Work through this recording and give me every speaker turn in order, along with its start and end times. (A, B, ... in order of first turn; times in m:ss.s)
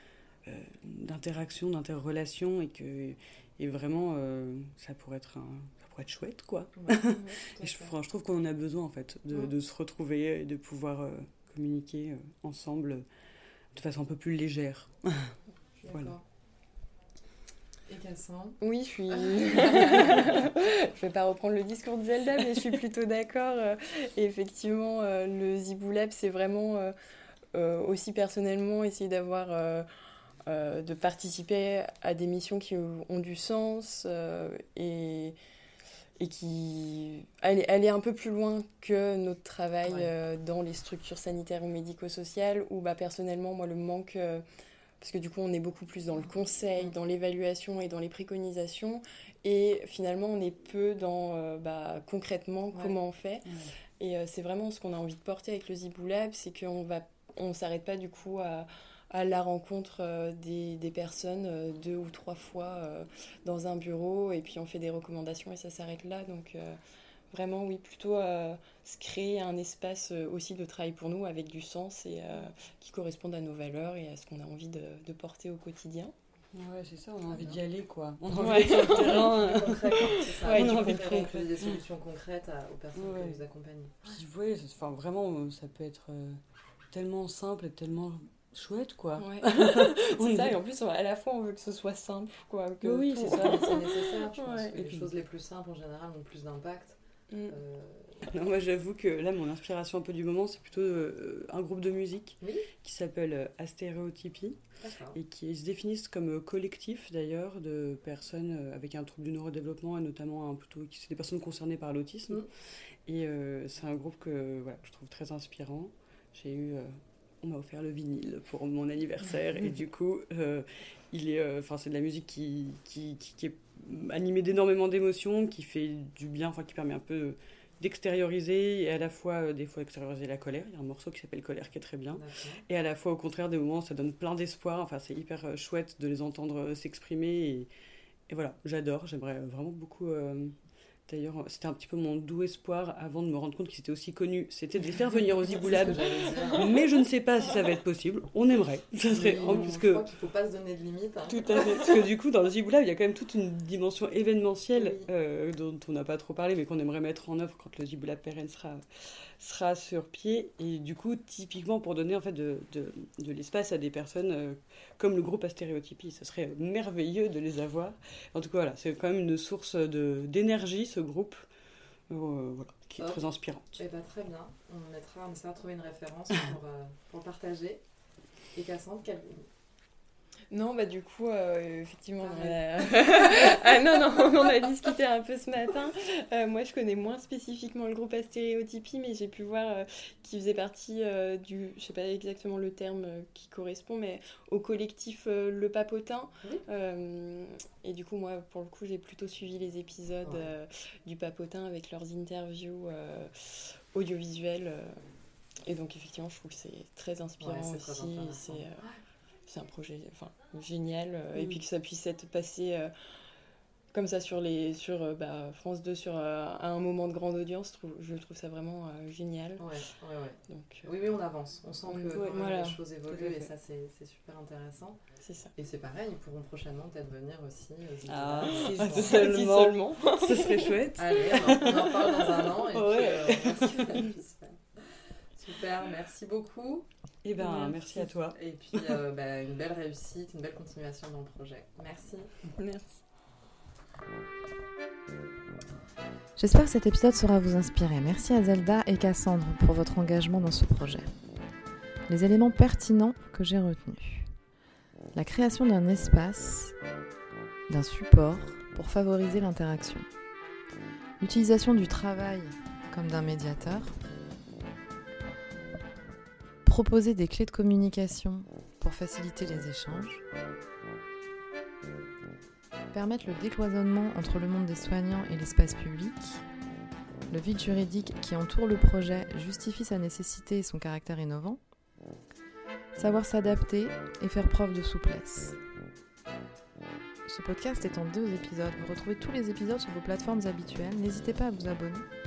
0:00.4-0:13.0 A
0:06.8-0:07.9 B
0:07.0-0:07.4 C
0:13.7-0:15.3 A
0:15.8-0:16.2 B
0:17.9-0:18.6 B
0:18.6-0:26.9 C
0:19.3-0:20.4 B
0:27.5-0:35.4 C
0:36.2-0:44.4 C
0:45.0-1:06.8 C
0:53.4-0:53.7 A
1:07.3-1:16.1 C
1:16.5-1:21.8 A
1:17.3-1:17.6 B
1:18.4-1:19.3 C
1:18.4-1:24.2 B
1:20.0-1:21.3 C
1:23.0-1:23.4 A
1:24.0-1:26.4 A
1:26.9-1:30.6 A
1:29.2-1:34.9 C
1:32.8-1:34.1 A
1:33.1-1:37.0 B
1:34.8-1:35.1 A
1:37.3-1:37.6 C
1:37.5-1:38.3 B
1:38.2-1:44.6 A
1:42.4-1:42.7 B
1:44.8-1:45.2 B
1:45.1-1:52.5 A
1:53.1-2:17.7 A
2:12.1-2:12.6 B
2:18.3-2:20.6 A
2:21.1-2:30.1 A
2:25.1-2:26.8 B
2:29.1-2:32.1 B
2:31.3-2:51.5 A
2:34.8-2:35.1 B
2:52.1-2:53.8 A
2:53.8-2:57.8 B
2:58.5-2:59.5 B
3:00.5-3:25.0 C
3:02.2-3:03.6 B
3:25.6-3:28.9 C
3:27.4-3:29.0 B
3:29.4-3:32.9 C
3:33.9-3:39.7 C
3:39.6-3:45.0 B
3:40.5-3:40.9 C
3:41.9-3:42.8 C
3:42.1-3:43.5 A
3:45.2-3:45.5 C
3:45.6-3:49.2 B
3:48.1-3:54.1 A
3:48.6-3:50.7 C
3:50.9-3:56.9 B
3:57.2-3:59.0 A
3:57.4-4:02.3 B
4:02.6-4:03.0 C
4:06.4-4:11.1 D
4:12.1-4:14.3 D
4:15.1-4:16.8 D
4:17.7-4:20.1 D
4:21.2-4:24.0 D
4:26.6-4:30.2 D
4:32.9-4:36.4 D
4:37.3-4:41.6 D
4:42.9-4:45.6 D
4:47.2-4:52.1 D